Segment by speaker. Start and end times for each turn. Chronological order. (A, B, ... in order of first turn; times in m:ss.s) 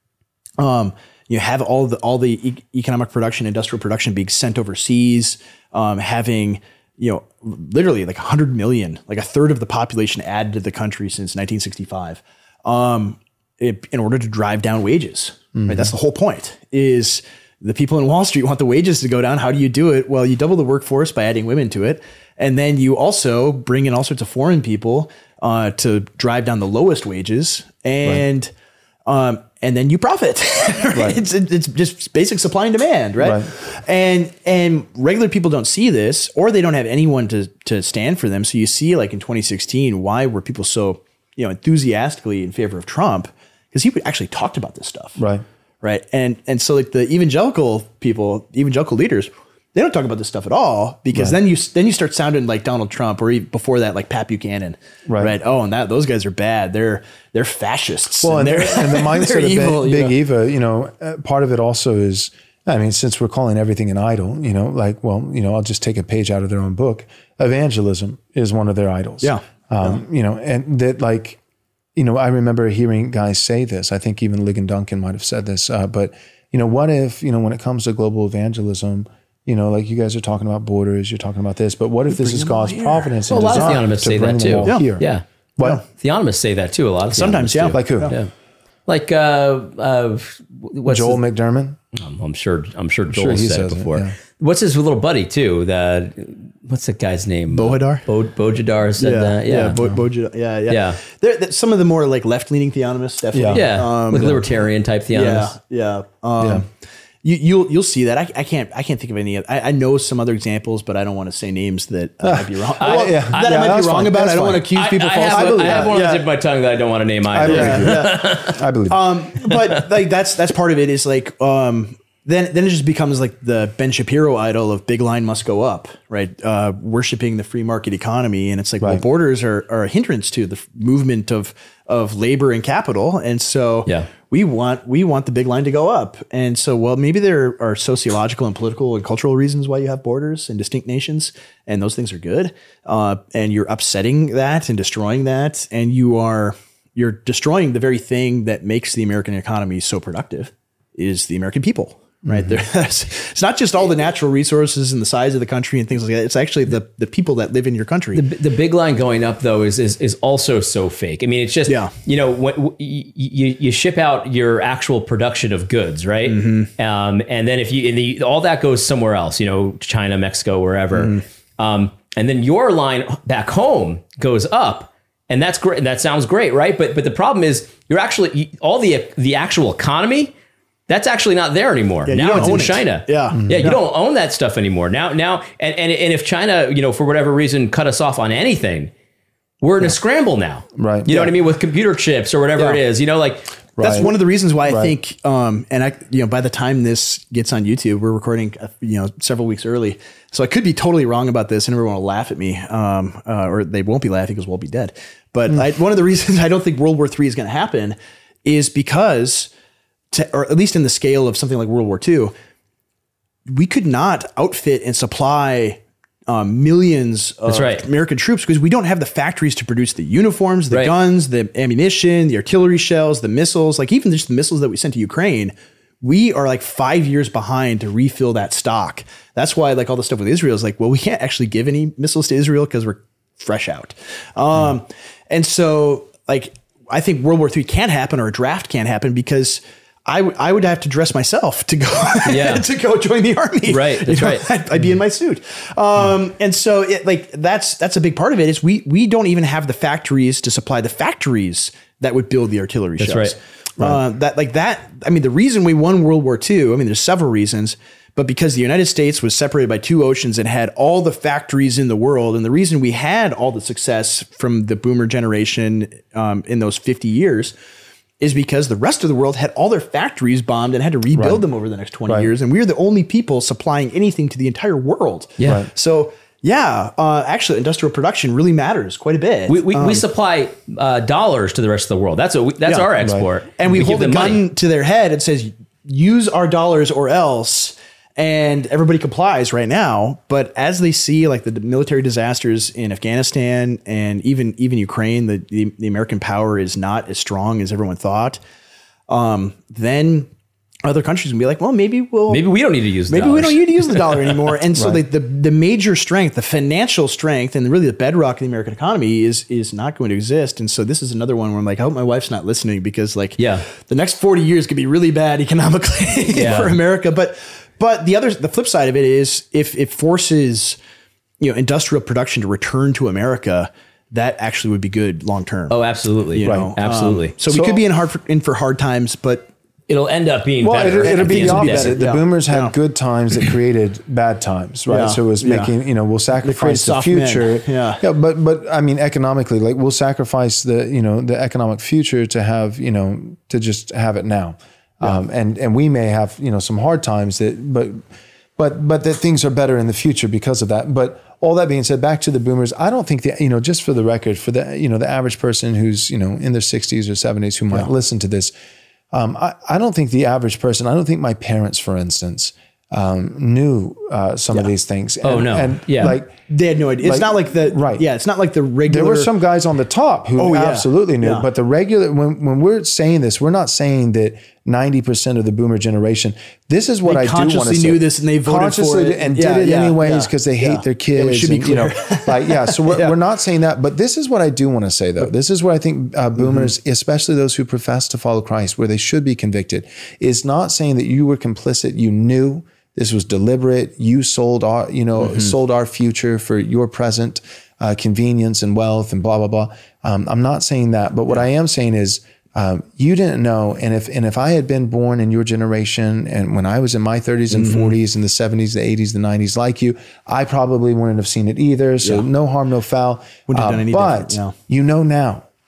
0:00.6-0:28.5 A
0:15.6-0:15.9 B
0:29.1-0:45.2 A
0:31.0-0:31.2 B
0:33.2-0:33.5 B
0:45.2-0:45.4 B
0:45.8-1:00.2 A
0:55.1-0:55.3 B
0:58.2-1:11.4 B
1:09.2-1:10.0 A
1:12.0-1:25.8 B
1:22.1-1:23.8 A
1:23.4-1:25.2 C
1:25.8-1:28.3 C
1:27.1-1:28.2 A
1:27.7-1:28.2 B
1:28.9-1:31.2 C
1:30.9-1:31.8 B
1:31.9-1:39.8 C
1:33.1-1:34.2 B
1:37.5-1:38.0 A
1:39.0-1:44.5 A
1:40.7-1:41.0 C
1:43.3-1:44.4 B
1:43.5-1:45.5 C
1:45.1-1:46.7 A
1:47.2-1:56.3 A
1:52.2-1:54.7 B
1:52.8-1:53.7 C
1:54.7-1:58.6 C
1:55.3-1:56.0 B
1:57.3-1:59.0 B
1:57.4-2:38.2 A
2:32.2-2:32.6 B
2:38.2-3:00.3 C
2:41.7-2:41.9 A
2:46.3-2:46.7 A
2:50.9-2:51.2 A
3:00.9-3:08.9 C
3:02.1-3:03.8 A
3:02.4-3:02.6 B
3:03.3-3:03.7 B
3:09.6-3:13.6 C
3:10.8-3:11.1 B
3:12.6-3:12.8 A
3:13.8-3:14.1 B
3:13.8-3:29.5 A
3:14.7-3:14.9 B
3:30.1-3:32.3 A
3:33.5-4:27.5 A
3:37.5-3:37.9 C
4:02.3-4:02.7 C
4:03.7-4:04.5 C
4:13.0-4:13.9 C
4:28.2-4:40.0 A
4:31.2-4:31.4 B
4:35.4-4:35.7 C
4:35.4-4:35.7 B
4:39.5-4:44.4 C
4:42.6-4:42.9 A
4:43.0-4:43.3 B
4:43.6-4:58.4 A
4:59.1-5:00.3 A
5:00.8-5:02.4 A
5:02.3-5:04.4 C
5:03.1-5:20.8 A
5:13.4-5:13.6 C
5:16.3-5:16.8 C
5:21.4-5:25.8 A
5:25.7-5:27.3 C
5:26.3-5:29.5 A
5:26.4-5:26.7 B
5:27.5-5:27.8 B
5:29.9-5:32.0 C
5:30.6-5:48.0 B
5:31.0-5:32.8 A
5:34.9-5:35.7 A
5:36.4-5:38.0 A
5:48.6-5:58.5 B
5:59.1-6:06.4 B
6:05.2-6:06.2 C
6:06.5-6:09.3 A
6:07.0-6:08.0 B
6:08.9-6:55.5 B
6:10.4-6:11.5 A
6:17.0-6:23.2 A
6:26.4-6:26.7 A
6:35.2-6:35.5 A
6:47.5-6:48.0 A
6:53.5-6:54.5 A